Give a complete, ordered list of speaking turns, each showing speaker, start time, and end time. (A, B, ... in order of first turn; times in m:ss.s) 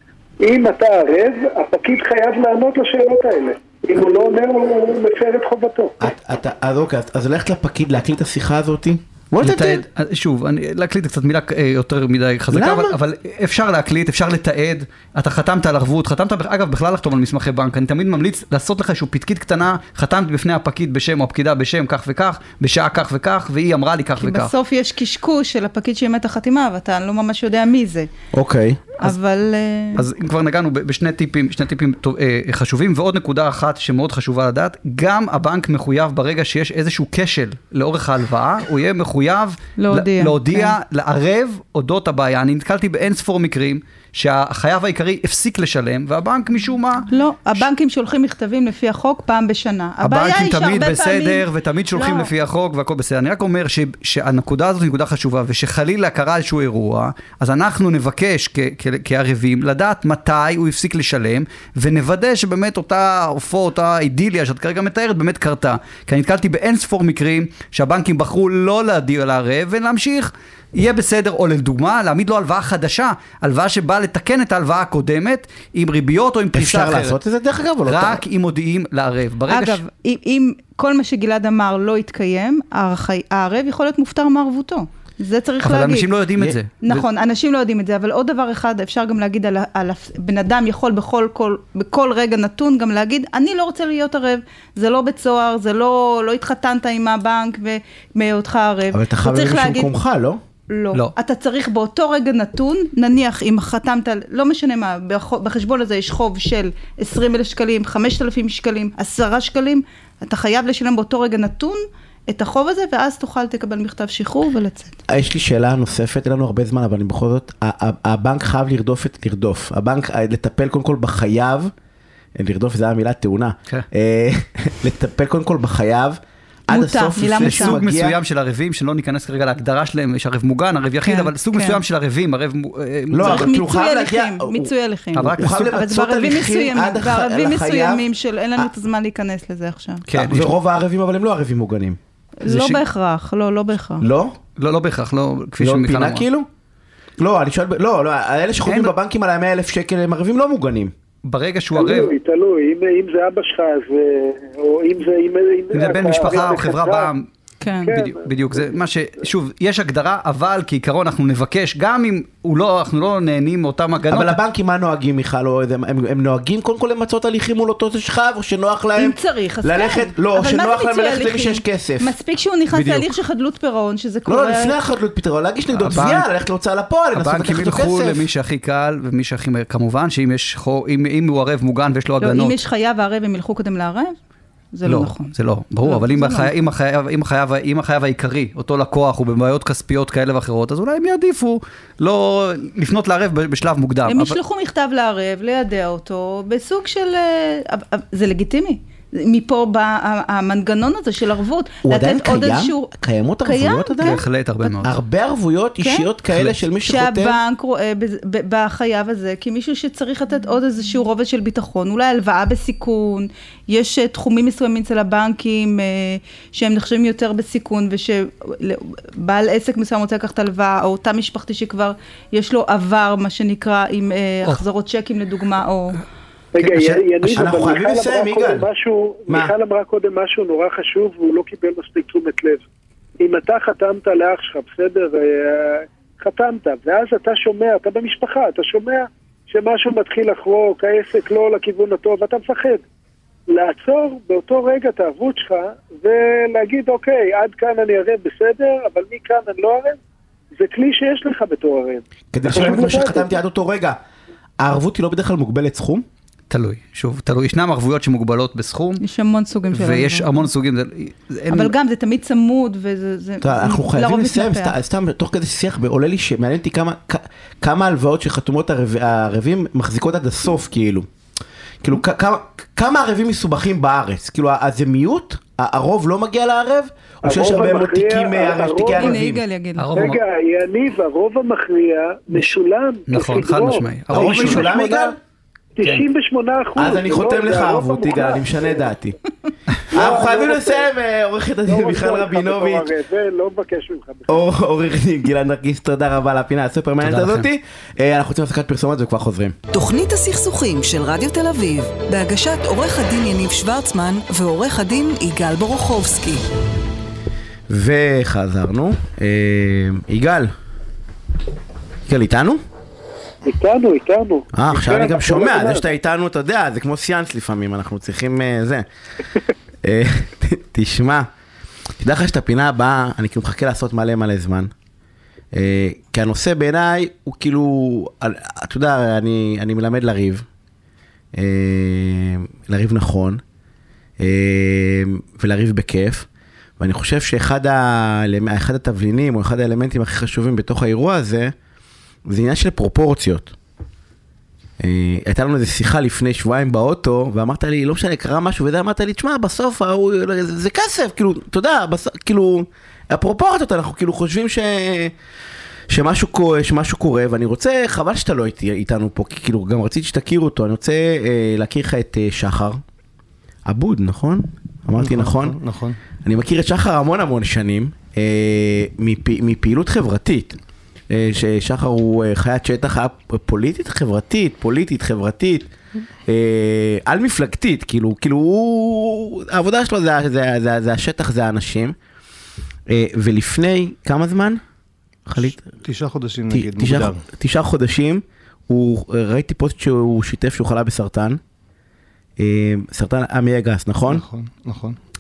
0:00.4-0:06.0 A
0:06.0-0:09.8 B
0:09.4-0:24.5 C
0:12.5-0:13.0 B
0:24.2-0:28.1 D
0:28.3-0:28.9 B
0:29.0-0:30.0 D
0:30.0-0:47.1 C
0:39.8-0:40.8 D
0:47.1-0:52.3 D
0:50.0-1:17.2 C
1:16.5-1:18.2 B
1:17.9-1:19.8 C
1:19.5-1:26.1 D
1:25.6-1:27.1 C
1:26.8-1:39.9 D
1:38.9-1:40.4 B
1:40.7-1:55.0 D
1:55.1-2:01.7 B
2:02.4-2:08.2 B
2:06.7-2:07.8 D
2:07.4-2:13.5 C
2:11.0-2:11.8 D
2:13.1-2:14.7 B
2:13.2-2:20.0 D
2:15.1-2:15.7 C
2:15.4-2:18.0 B
2:20.1-2:20.5 C
2:20.1-2:22.0 B
2:22.4-2:24.0 D
2:22.4-2:22.8 C
2:24.0-2:24.4 B
2:24.6-2:26.3 C
2:25.6-2:26.5 B
2:27.2-2:30.9 B
2:28.6-2:28.9 C
2:31.2-2:32.1 C
2:31.8-2:37.1 A
2:35.7-2:37.2 C
2:37.6-2:37.9 D
2:37.8-2:38.8 A
2:37.9-2:44.4 C
2:44.1-2:52.1 B
2:49.0-2:54.8 D
2:52.7-2:53.1 B
2:54.2-2:58.3 B
2:55.8-2:56.3 C
2:57.1-3:02.6 C
3:02.2-3:04.1 D
3:04.7-3:06.5 D
3:04.8-3:14.4 C
3:14.1-3:22.9 D
3:21.8-3:24.2 B
3:23.4-3:24.9 D
3:24.0-3:25.0 C
3:24.8-3:27.4 B
3:25.8-3:26.1 D
3:26.3-3:26.6 C
3:26.8-3:46.0 D
3:46.5-3:52.6 A
3:46.6-3:48.7 B
3:49.3-3:49.5 B
3:53.2-4:02.8 A
4:03.5-4:10.0 A
4:10.6-4:13.3 A
4:12.3-4:14.0 B
4:14.6-4:16.0 B
4:16.5-4:19.0 C
4:19.0-4:20.4 D
4:19.7-4:21.7 C
4:21.5-4:24.8 D
4:23.4-4:31.1 B
4:31.8-4:39.4 B
4:37.2-4:39.2 A
4:38.9-4:40.0 D
4:39.8-4:40.2 C
4:39.9-4:44.9 A
4:43.1-4:44.8 C
4:44.1-4:45.2 B
4:44.2-4:44.5 D
4:45.8-4:48.9 A
4:46.8-4:49.2 B
4:49.9-4:50.9 A
4:49.9-4:52.9 B
4:51.7-4:54.4 A
4:54.3-4:59.6 B
4:57.0-4:57.5 C
4:59.7-5:06.4 E
5:07.7-5:10.5 B
5:12.1-5:12.6 B
5:13.4-5:15.8 A
5:14.5-5:18.9 B
5:19.8-5:21.3 B
5:22.0-5:24.7 B
5:25.5-5:30.4 B
5:31.4-5:33.4 B
5:34.2-5:36.3 B
5:36.8-5:41.5 B
5:42.3-5:43.6 B
5:44.8-5:55.1 B
5:55.9-6:02.8 B
6:03.6-6:05.6 B
6:05.0-6:06.0 F
6:06.2-6:10.6 B
6:11.1-6:15.7 B
6:16.3-6:21.9 B
6:22.9-6:24.6 B
6:25.3-6:25.6 B
6:25.4-6:27.2 F
6:26.5-6:31.4 B
6:32.4-6:34.2 B
6:34.1-6:35.0 F